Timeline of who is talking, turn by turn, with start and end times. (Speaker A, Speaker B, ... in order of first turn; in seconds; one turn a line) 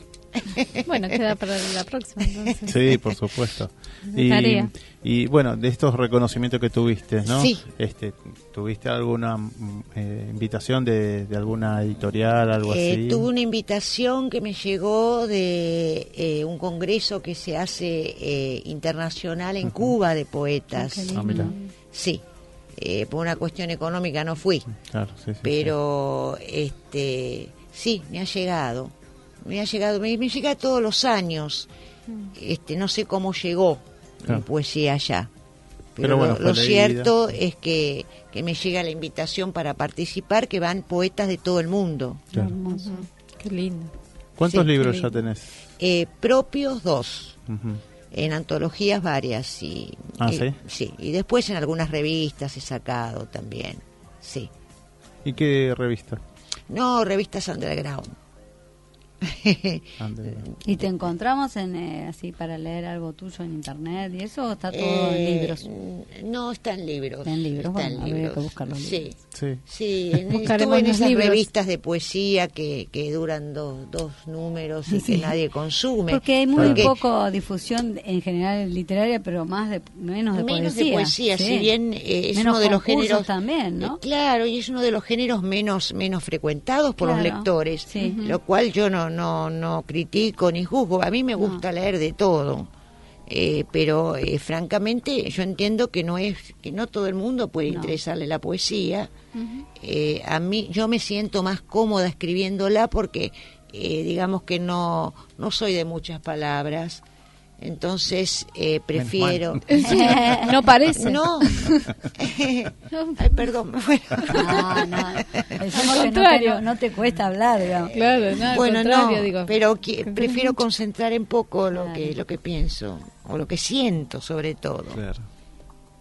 Speaker A: 0.4-1.3
Speaker B: 0.9-3.0
Speaker C: 2.7-13.3
Speaker B: 4.1-4.7
Speaker A: 7.3-7.6
Speaker A: 12.6-22.2
Speaker C: 19.6-19.9
Speaker D: 20.8-21.6
Speaker C: 21.1-21.5
Speaker B: 21.2-21.5
Speaker A: 22.8-24.7
Speaker C: 24.8-25.8
Speaker A: 25.4-31.7
Speaker A: 32.4-35.3
Speaker A: 36.0-42.2
Speaker C: 36.0-37.1
Speaker D: 42.4-43.0
Speaker B: 42.7-43.9
Speaker C: 44.4-45.5
Speaker B: 44.6-45.1
Speaker A: 45.8-47.4
Speaker C: 47.5-47.8
Speaker A: 48.1-54.5
Speaker C: 50.2-50.6
Speaker C: 55.2-56.2
Speaker A: 56.7-58.1
Speaker A: 59.2-61.0
Speaker C: 60.0-60.5
Speaker D: 60.6-65.7
Speaker A: 64.7-77.0
Speaker D: 67.3-69.0
Speaker C: 69.3-69.6
Speaker B: 70.4-71.5
Speaker D: 74.9-75.3
Speaker D: 76.1-81.7
Speaker C: 76.6-76.9
Speaker A: 80.3-83.3
Speaker D: 82.3-84.0
Speaker A: 83.8-92.7
Speaker D: 87.0-88.2
Speaker B: 88.0-88.4
Speaker D: 91.4-91.6
Speaker A: 93.3-99.1
Speaker D: 97.7-98.0
Speaker B: 99.3-99.7
Speaker A: 99.8-107.0
Speaker A: 107.6-111.6
Speaker C: 109.0-109.6
Speaker B: 109.7-111.9
Speaker D: 109.8-110.5
Speaker A: 112.2-115.6
Speaker B: 112.9-113.3
Speaker D: 114.3-117.9
Speaker B: 115.7-116.6
Speaker B: 117.9-120.5
Speaker A: 118.0-125.0
Speaker D: 121.7-122.2
Speaker C: 124.9-125.3